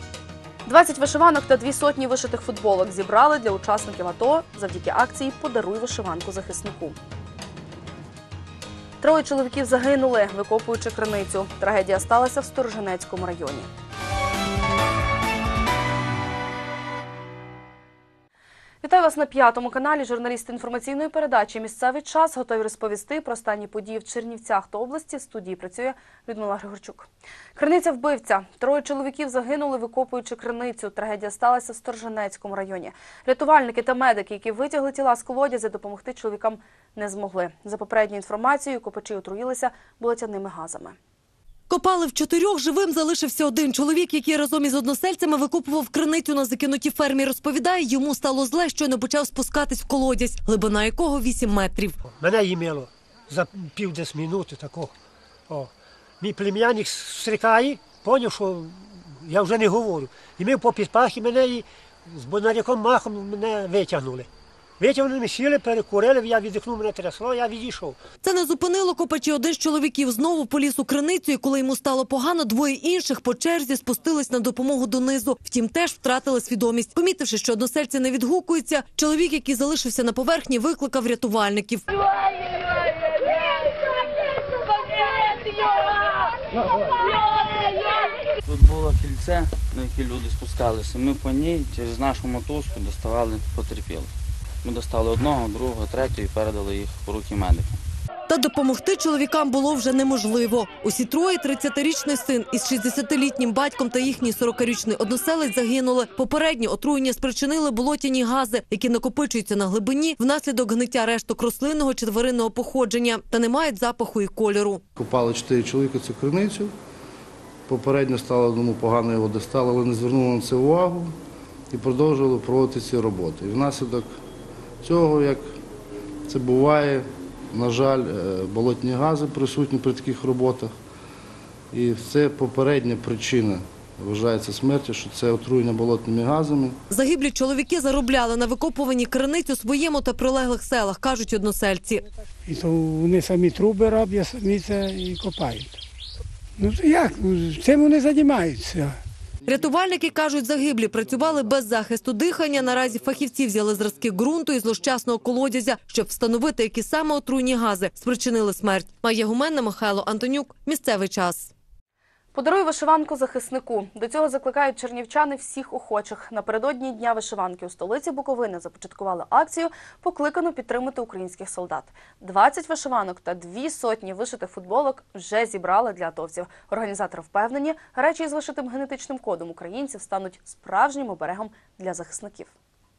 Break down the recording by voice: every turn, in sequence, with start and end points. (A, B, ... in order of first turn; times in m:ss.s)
0:00.6-0:07.0 A
0:09.0-0:13.7 A
0:18.8-0:41.0 A
0:41.7-0:51.9 B
0:52.2-0:54.9 C
0:55.5-1:04.3 C
1:04.8-1:08.0 C
1:08.2-1:21.8 B
1:28.5-1:34.0 D
1:34.6-1:37.6 D
1:38.3-1:54.8 B
1:55.0-1:56.7 E
1:57.7-2:01.1 E
2:01.7-2:04.1 E
2:04.8-2:05.5 E
2:06.3-2:10.7 E
2:11.7-2:16.8 E
2:16.9-2:22.0 B
2:22.4-2:25.8 F
2:26.6-2:29.0 F
2:29.4-2:41.5 B
2:42.3-3:02.5 A